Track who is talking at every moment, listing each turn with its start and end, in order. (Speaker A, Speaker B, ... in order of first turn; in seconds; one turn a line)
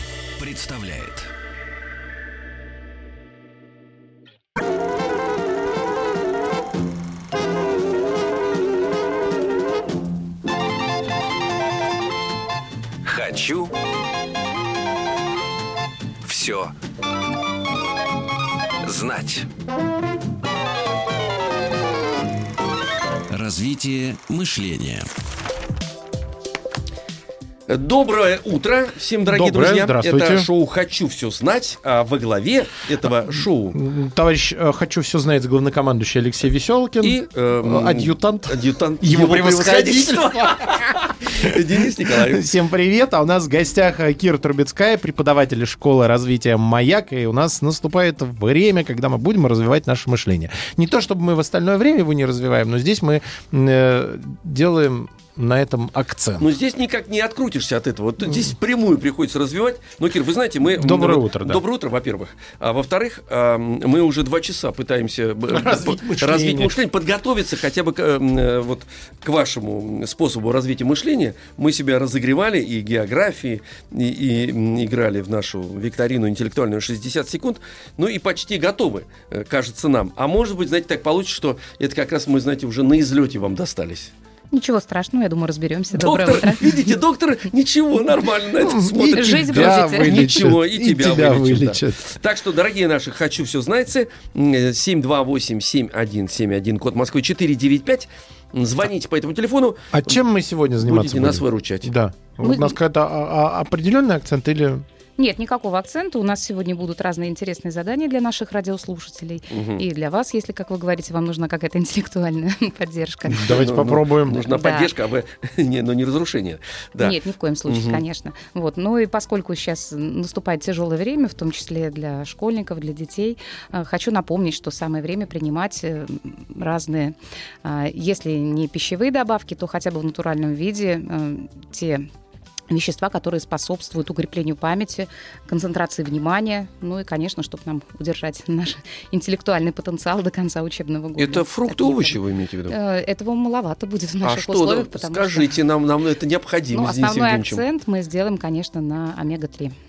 Speaker A: 0.4-1.3
Speaker A: 13.0-13.7
Speaker A: 16.2-16.7
Speaker A: 18.8-19.5
Speaker A: 23.3-25.1
Speaker B: 27.7-33.8
Speaker C: 29.2-30.5
Speaker C: 33.7-41.5
Speaker B: 37.0-42.4
Speaker C: 42.1-56.5
Speaker B: 56.4-84.1
Speaker C: 60.6-61.6
Speaker C: 65.5-66.8
Speaker D: 84.5-86.9
Speaker B: 85.9-100.2
Speaker C: 88.6-92.1
Speaker D: 89.0-90.2
Speaker C: 99.9-104.8
Speaker B: 100.8-101.9
Speaker D: 102.4-102.8
Speaker D: 105.2-113.6
Speaker B: 109.5-109.8
Speaker C: 113.3-114.4
Speaker B: 113.4-118.0
Speaker D: 114.5-114.9
Speaker D: 117.0-132.1
Speaker D: 132.7-142.2
Speaker B: 141.2-142.8
Speaker D: 142.7-145.5
Speaker B: 144.2-147.6
Speaker D: 146.7-149.8